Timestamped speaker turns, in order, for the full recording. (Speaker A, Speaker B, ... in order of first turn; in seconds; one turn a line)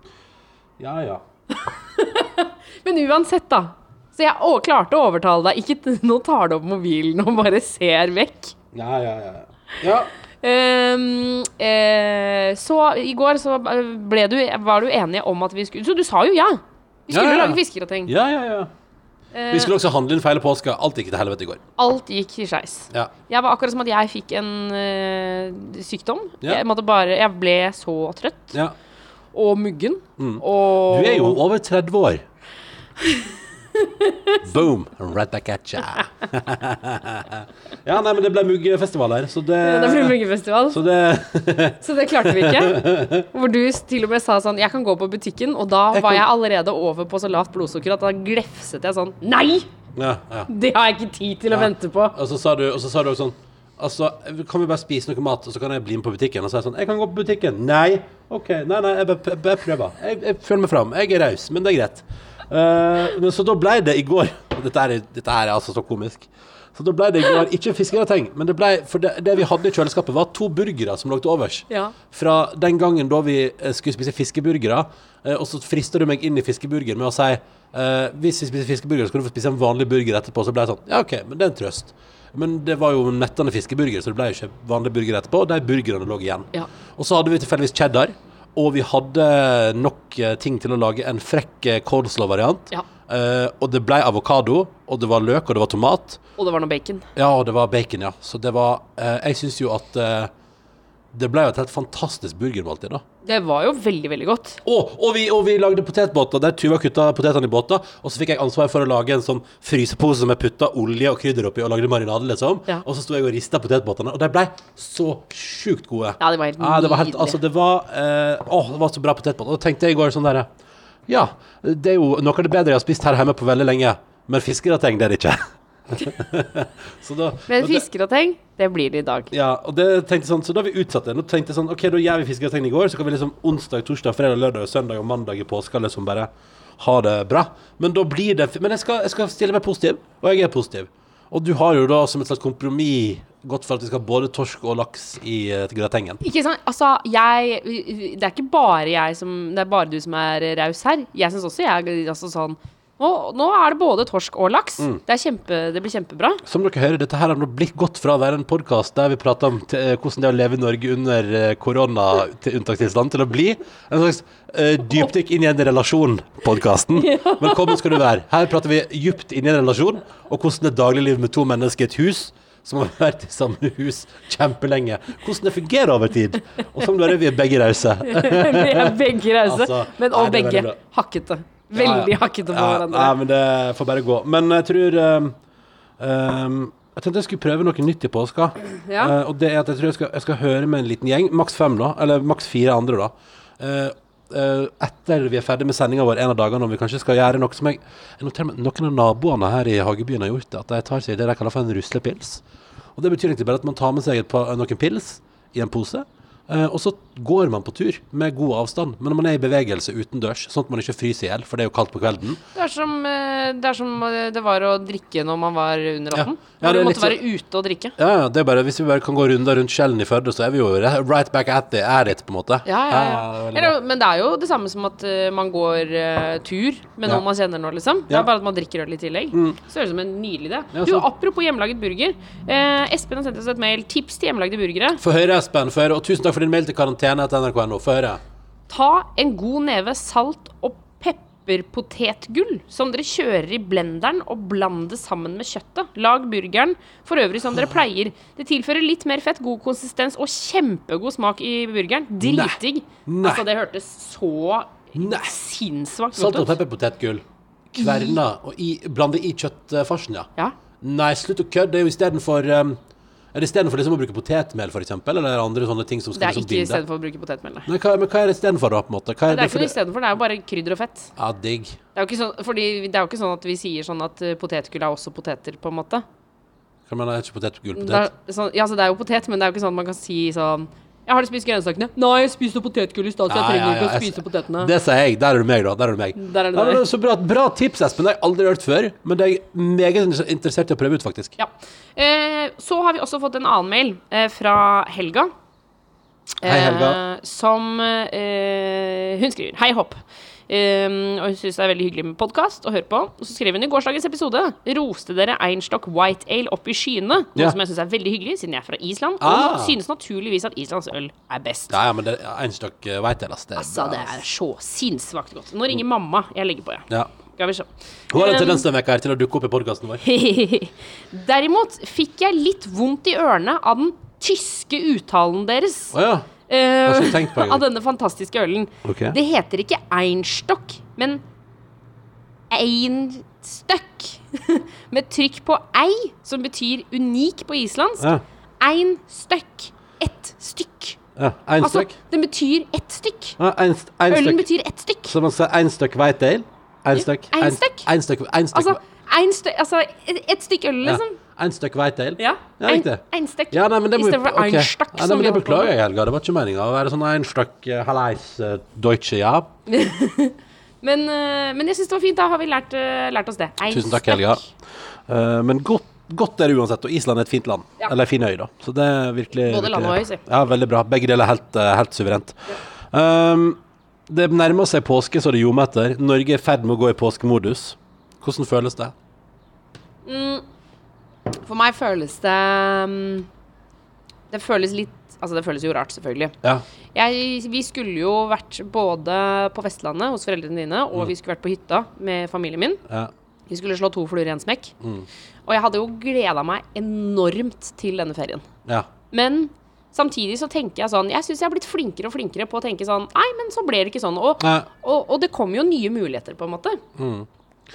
Speaker A: 0.8-1.2
Speaker B: 1.5-8.5
Speaker A: 8.7-10.1
Speaker B: 10.4-18.1
Speaker A: 17.1-18.7
Speaker B: 19.3-19.7
Speaker A: 19.5-21.6
Speaker B: 21.8-28.6
Speaker B: 29.3-31.4
Speaker A: 30.2-32.2
Speaker B: 33.0-34.4
Speaker A: 34.4-40.2
Speaker B: 39.6-40.8
Speaker A: 40.7-43.3
Speaker B: 41.8-49.7
Speaker A: 45.9-46.2
Speaker A: 50.0-50.5
Speaker B: 50.5-52.1
Speaker A: 51.5-96.2
Speaker B: 96.4-97.1
Speaker A: 97.2-100.3
Speaker A: 101.1-103.0
Speaker B: 103.2-104.6
Speaker A: 104.6-120.5
Speaker B: 116.2-117.4
Speaker A: 121.1-127.8
Speaker B: 127.5-129.3
Speaker A: 129.3-146.2
Speaker B: 146.2-156.4
Speaker A: 156.4-180.8
Speaker B: 167.0-168.0
Speaker B: 178.0-183.2
Speaker A: 181.7-185.3
Speaker A: 186.0-202.4
Speaker B: 188.8-189.2
Speaker A: 203.0-212.4
Speaker B: 212.6-217.9
Speaker A: 216.1-217.2
Speaker A: 218.0-223.8
Speaker B: 222.7-235.0
Speaker A: 229.3-229.6
Speaker A: 230.7-231.1
Speaker A: 235.0-238.2
Speaker B: 238.7-256.5
Speaker A: 252.2-253.4
Speaker A: 254.9-255.3
Speaker A: 256.1-260.3
Speaker B: 257.8-258.1
Speaker A: 260.8-262.8
Speaker A: 263.3-266.8
Speaker B: 266.1-267.7
Speaker A: 267.7-269.8
Speaker B: 269.3-271.1
Speaker A: 271.2-271.8
Speaker B: 271.9-276.1
Speaker A: 276.9-278.1
Speaker B: 277.8-284.7
Speaker A: 283.3-291.4
Speaker B: 286.2-286.8
Speaker B: 291.4-295.3
Speaker A: 296.4-297.0
Speaker B: 296.4-311.8
Speaker A: 309.2-309.8
Speaker A: 311.7-314.2
Speaker B: 313.6-318.6
Speaker A: 318.1-320.0
Speaker B: 320.0-325.9
Speaker A: 325.9-326.3
Speaker B: 326.5-331.2
Speaker A: 326.9-327.6
Speaker A: 328.9-329.2
Speaker B: 332.5-338.1
Speaker B: 338.6-341.0
Speaker A: 341.2-341.9
Speaker B: 341.6-343.4
Speaker A: 343.4-344.4
Speaker B: 344.1-345.1
Speaker A: 345.1-348.8
Speaker B: 346.9-347.9
Speaker B: 348.5-351.2
Speaker A: 350.8-359.5
Speaker B: 352.2-355.7
Speaker B: 359.7-364.4
Speaker A: 363.7-364.4
Speaker A: 365.1-378.9
Speaker B: 369.4-370.2
Speaker B: 380.1-380.4
Speaker B: 381.3-383.3
Speaker B: 384.3-386.4
Speaker B: 386.9-392.8
Speaker B: 393.5-394.7
Speaker A: 394.8-395.1
Speaker B: 395.5-398.4
Speaker B: 399.1-406.8
Speaker A: 404.4-404.7
Speaker A: 407.0-407.3